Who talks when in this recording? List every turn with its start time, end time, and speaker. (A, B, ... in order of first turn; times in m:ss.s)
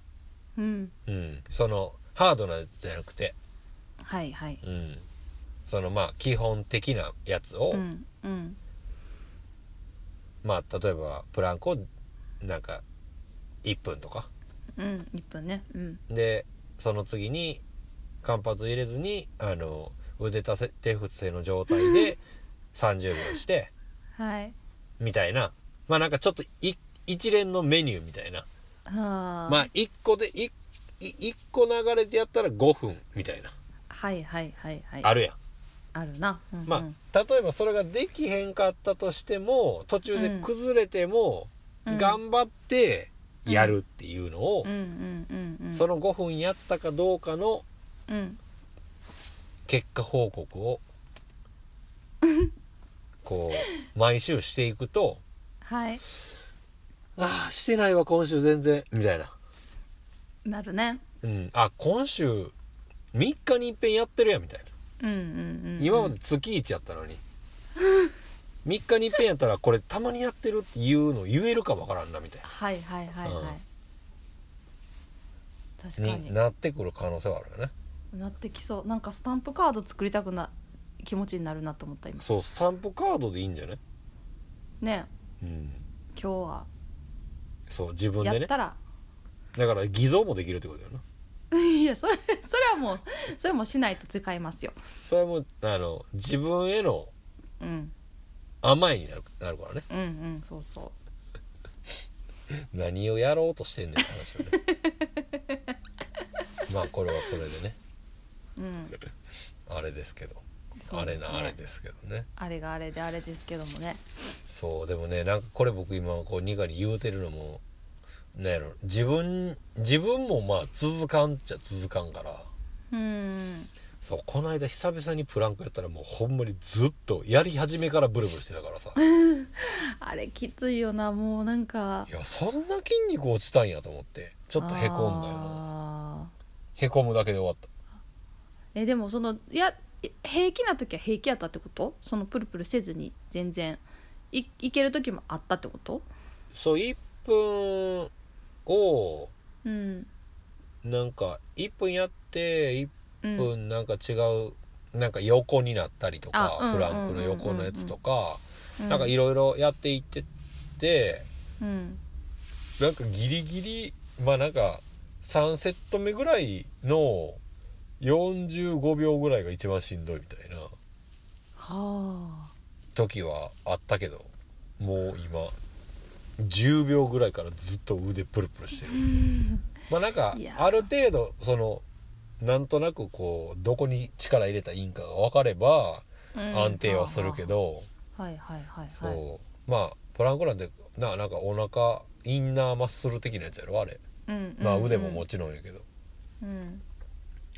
0:00.6-0:00.9 A
0:01.1-0:03.3 B
0:04.0-0:04.6 A
0:04.6-0:05.0 B
0:05.7-0:07.8 B
0:07.7-0:08.6 A
0:10.4-0:11.9 B
0:12.4-0:12.8 B
0:13.6-0:14.3 B
0:14.8-0:16.0 A
0:16.1-0:17.6 B
0:18.2-0:22.2 B
0:21.7-0:22.1 A
0:22.7-0:23.7 B
0:24.2-0:24.5 A
0:25.0-0:28.5 B
0:28.8-0:29.7 A
0:29.5-0:33.5 B
0:33.9-0:35.1 A
0:35.0-0:35.4 B
0:35.9-0:37.0 A
0:36.7-0:44.7 B
0:40.1-0:40.5 A
0:41.8-0:42.2 A
0:43.5-0:43.8 A
0:44.6-0:45.8 A
0:45.7-0:47.6 B
0:48.1-0:48.4 A
0:49.7-0:50.8 B
0:52.2-0:52.5 A
0:53.2-0:55.2 B
0:55.6-0:56.0 A
0:57.2-0:59.3 B
1:00.4-1:01.0 A
1:01.2-1:02.5 B
1:03.1-1:04.7 B
1:05.0-1:06.1 A
1:05.8-1:07.2 B
1:07.8-1:08.1 A
1:08.6-1:12.5 B
1:12.4-1:13.6 A
1:13.2-1:13.6 B
1:15.8-1:16.3 A
1:16.0-1:17.7 B
1:18.1-1:22.2 A
1:22.2-1:23.8 B
1:24.8-1:25.1 A
1:25.4-1:25.8 B
1:26.1-1:26.7 A
1:27.7-1:28.5 B
1:28.2-1:28.8 A
1:29.5-1:31.0 B
1:31.5-1:34.8 A
1:35.0-1:37.1 B
1:37.6-1:37.9 A
1:38.6-1:39.8 B
1:39.9-1:40.9 A
1:42.7-1:44.6 B
1:44.5-1:45.7 A
1:46.7-1:47.8 B
1:48.6-1:49.0 A
1:49.7-1:52.3 B
1:50.8-1:51.6 A
1:52.4-1:54.0 A
1:54.5-1:57.6 B
1:58.3-2:02.5 B
2:02.9-2:03.7 A
2:04.0-2:09.0 B
2:09.0-2:12.1 A
2:12.1-2:15.6 B
2:14.6-2:16.3 A
2:16.8-2:17.7 B
2:18.7-2:26.1 A
2:26.5-2:28.1 B
2:28.6-2:29.3 B
2:29.6-2:30.1 A
2:30.8-2:40.3 B
2:33.2-2:33.5 A
2:36.3-2:37.9 A
2:38.8-2:39.1 A
2:40.8-2:41.3 B
2:41.6-2:42.0 A
2:42.8-2:47.4 B
2:48.0-2:50.7 B
2:51.6-2:52.5 A
2:52.9-2:55.5 B
2:56.4-2:59.1 B
2:58.9-2:59.7 A
2:59.9-3:01.8 B
3:00.3-3:00.8 A
3:02.4-3:07.9 B
3:06.3-3:07.5 A
3:08.2-3:09.2 A
3:08.9-3:14.0 B
3:14.3-3:15.2 A
3:14.6-3:15.8 B
3:16.4-3:16.8 A